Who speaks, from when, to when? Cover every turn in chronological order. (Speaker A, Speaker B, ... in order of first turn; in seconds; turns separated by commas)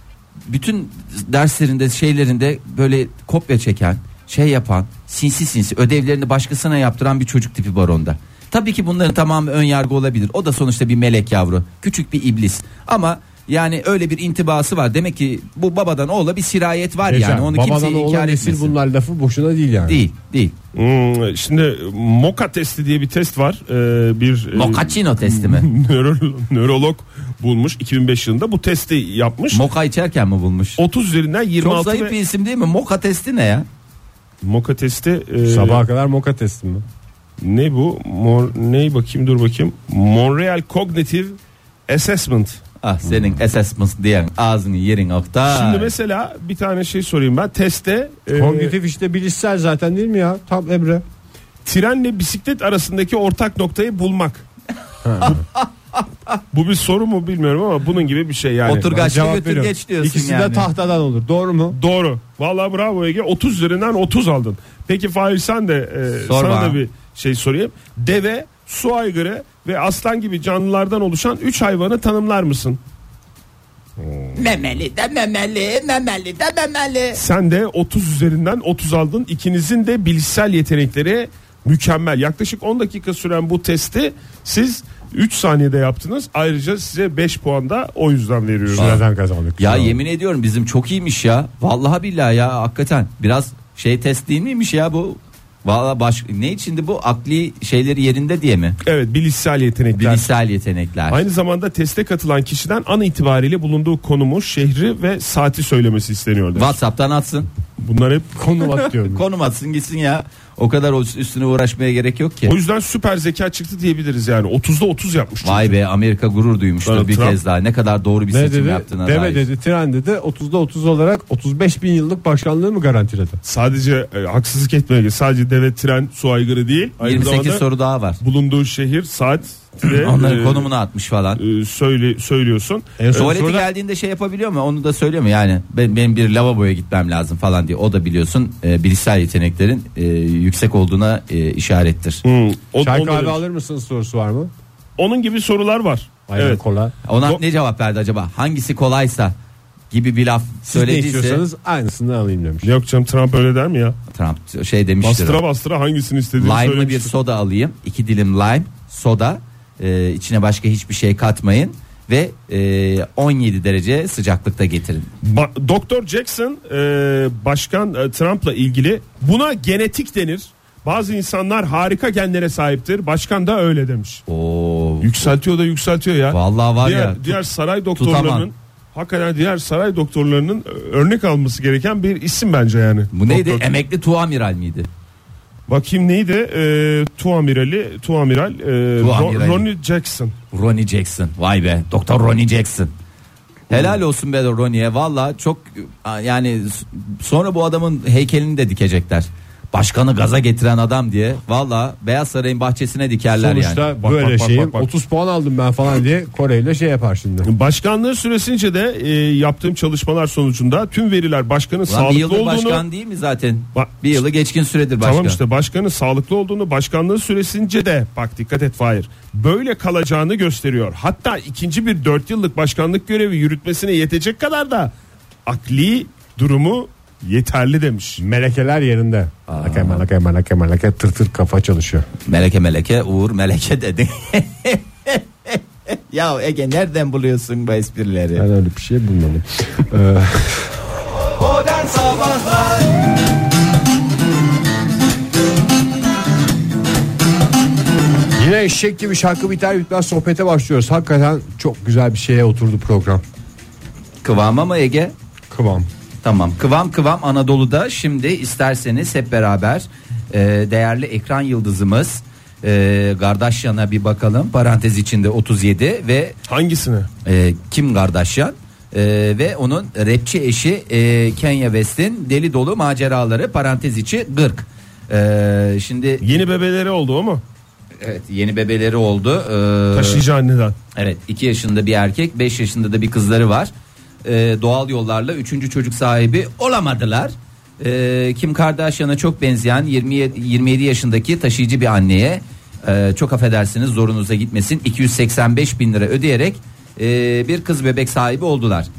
Speaker A: 0.5-18.7, Speaker B: 17.1-20.0, Speaker A: 19.9-20.5, Speaker C: 20.7-29.7, Speaker A: 24.5-25.7, Speaker A: 29.5-30.8, Speaker C: 30.8-32.1, Speaker A: 31.6-33.7, Speaker C: 34.4-35.8, Speaker B: 35.4-36.8, Speaker C: 37.4-41.4, Speaker C: 41.9-42.6, Speaker A: 42.8-45.9, Speaker C: 45.5-48.7, Speaker B: 48.3-51.0, Speaker C: 51.6-54.4, Speaker B: 55.0-55.4, Speaker A: 55.2-56.0, Speaker C: 56.5-58.9, Speaker A: 58.6-60.7, Speaker B: 58.8-61.8, Speaker C: 61.7-72.8, Speaker A: 66.2-66.8, Speaker C: 74.0-74.4, Speaker A: 74.3-77.2, Speaker C: 77.1-89.0, Speaker B: 88.7-90.0, Speaker A: 88.8-89.0, Speaker A: 89.6-98.8, Speaker C: 98.8-100.3, Speaker A: 100.0-101.2, Speaker C: 101.1-106.8, Speaker A: 106.5-107.5, Speaker C: 107.8-108.3, Speaker B: 108.3-109.2, Speaker A: 108.8-112.5, Speaker C: 112.4-115.7, Speaker A: 115.4-119.4, Speaker C: 116.8-117.4, Speaker B: 118.3-123.4, Speaker C: 123.4-127.6, Speaker A: 127.0-128.2, Speaker C: 128.2-130.7, Speaker A: 129.8-131.4, Speaker C: 131.3-133.4, Speaker B: 133.0-133.7, Speaker A: 133.1-142.2, Speaker C: 142.2-143.4, Speaker B: 142.8-144.5, Speaker C: 145.0-146.6, Speaker B: 146.3-146.9, Speaker A: 147.1-149.3, Speaker A: 149.9-151.4, Speaker B: 150.7-152.7, Speaker C: 152.6-154.0, Speaker A: 154.1-155.4, Speaker C: 155.0-157.1, Speaker A: 156.4-165.1, Speaker C: 165.2-174.2, Speaker A: 174.3-175.1, Speaker C: 175.0-183.6, Speaker A: 176.3-177.4, Speaker A: 178.0-178.5, Speaker A: 183.1-184.9, Speaker C: 185.7-190.3, Speaker A: 189.0-189.6, Speaker A: 190.5-192.9, Speaker A: 193.7-204.8, Speaker B: 203.3-207.5, Speaker C: 204.0-204.7, Speaker C: 207.4-212.8, Speaker A: 211.9-215.4, Speaker C: 213.7-214.2, Speaker C: 215.0-224.9, Speaker C: 225.4-228.2, Speaker B: 228.2-232.1, Speaker A: 229.5-230.1, Speaker A: 232.2-238.4, Speaker B: 238.3-240.7, Speaker A: 241.4-242.9, Speaker B: 248.3-253.2, Speaker A: 254.2-255.1, Speaker B: 255.5-255.9, Speaker A: 256.2-266.4, Speaker C: 266.5-267.1, Speaker A: 267.2-276.2, Speaker C: 276.2-277.4, Speaker A: 278.0-280.2, Speaker C: 279.9-280.7, Speaker A: 280.9-283.7, Speaker A: 284.2-298.9